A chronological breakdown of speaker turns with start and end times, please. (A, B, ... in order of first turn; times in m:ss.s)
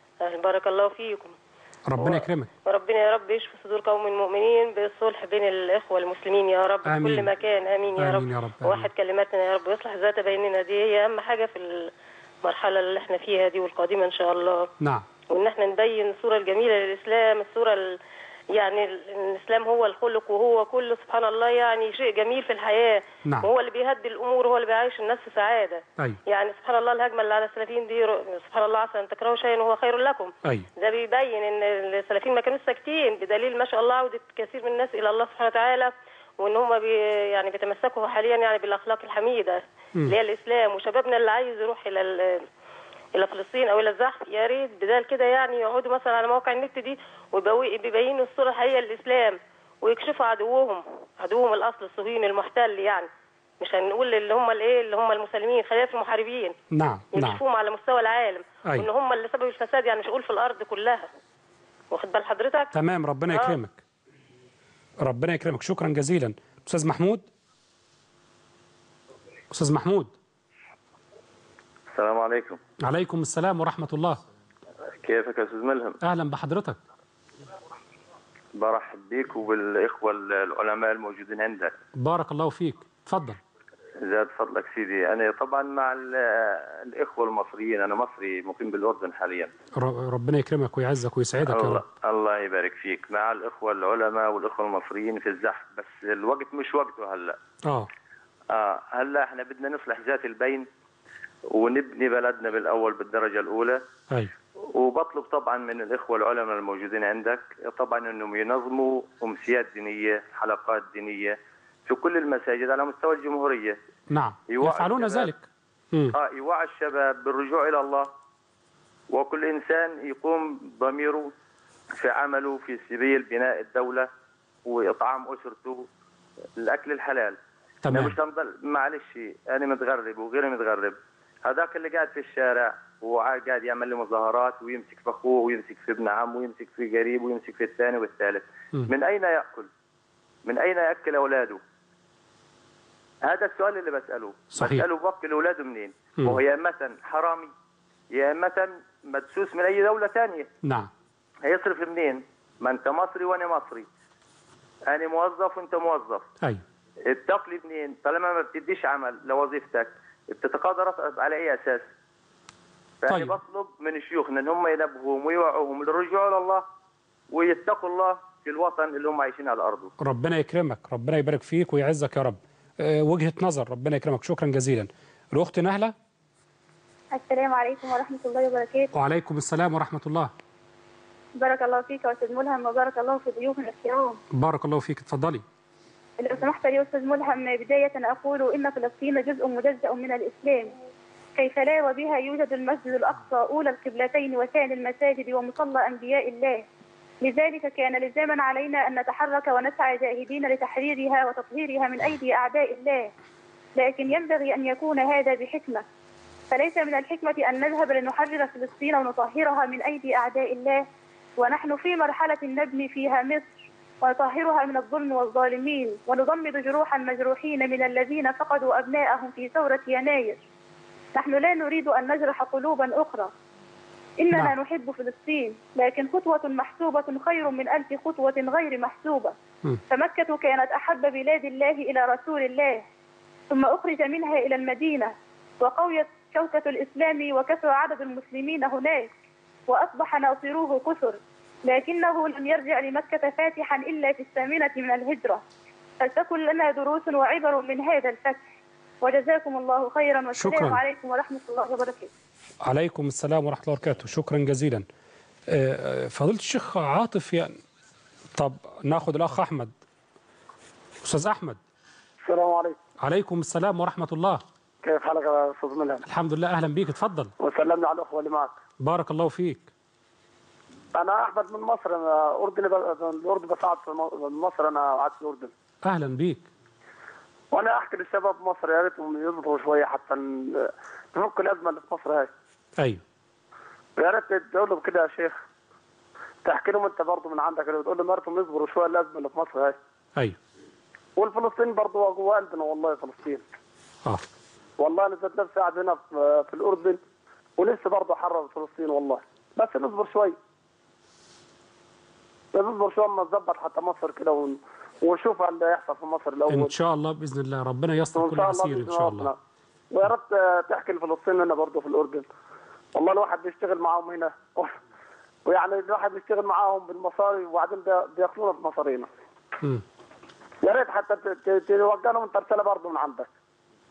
0:00.2-0:01.3 A
0:01.9-0:02.5 B
0:02.0-0:11.9 A
0:06.8-0:07.3 B
0:08.0-0:08.9 B
0:12.4-0:14.7 A
0:15.3-0:18.0 A
0:18.5-0:42.4 A
0:43.1-0:53.1 A
0:53.6-0:56.5 A
0:56.7-0:57.4 B
0:57.1-1:01.1 A
1:01.9-1:02.7 A
1:02.7-1:03.8 B
1:03.3-1:03.6 A
1:05.0-1:07.2 B
1:09.5-1:10.1 B
1:11.9-1:12.6 C
1:12.8-1:14.2 B
1:15.0-1:16.0 C
1:16.0-1:16.8 B
1:18.5-1:21.7 C
1:22.0-1:23.4 B
1:24.0-1:29.5 C
1:29.8-1:31.8 B
1:31.4-1:37.4 C
1:38.5-1:40.7 C
1:41.5-1:43.8 C
1:44.7-1:53.8 C
1:54.1-1:55.4 B
1:54.5-1:55.3 C
1:56.1-1:58.1 C
1:59.1-2:01.3 C
2:01.9-2:04.1 C
2:04.6-2:05.9 C
2:06.6-2:19.7 C
2:07.8-2:08.1 B
2:20.4-2:21.6 C
2:23.2-2:27.5 C
2:24.6-2:24.8 B
2:28.1-2:30.5 C
2:31.4-2:33.9 C
2:34.9-2:36.3 C
2:37.0-2:41.9 C
2:43.0-2:46.6 C
2:47.3-2:49.9 C
2:50.0-2:55.9 B
2:57.1-2:58.9 D
2:58.9-3:00.3 B
3:01.4-3:04.2 D
3:04.3-3:05.4 B
3:06.2-3:10.7 D
3:11.4-3:16.6 D
3:17.2-3:23.1 D
3:23.8-3:25.8 D
3:26.5-3:30.8 D
3:31.4-3:40.4 D
3:41.1-3:43.3 D
3:44.2-3:49.3 D
3:49.9-3:52.8 D
3:53.5-3:59.1 D
3:59.7-4:05.4 D
4:06.0-4:08.5 D
4:09.0-4:12.1 D
4:10.3-4:10.8 B
4:12.6-4:14.8 B
4:15.5-4:17.6 B
4:18.4-4:19.7 B
4:21.0-4:21.6 B
4:22.2-4:22.8 E
4:23.0-4:24.4 B
4:24.8-4:26.0 E
4:26.0-4:27.3 B
4:27.4-4:28.5 E
4:28.8-4:29.7 B
4:30.9-4:35.5 E
4:35.8-4:36.4 B
4:37.5-4:42.3 E
4:44.0-4:45.4 E
4:46.4-4:49.8 E
4:51.2-4:53.4 E
4:54.8-4:57.0 E
4:57.6-5:00.4 E
5:02.5-5:06.7 E
5:06.5-5:09.3 B
5:08.1-5:09.3 E
5:09.9-5:12.3 E
5:12.9-5:14.8 E
5:15.4-5:19.1 E
5:20.6-5:23.3 E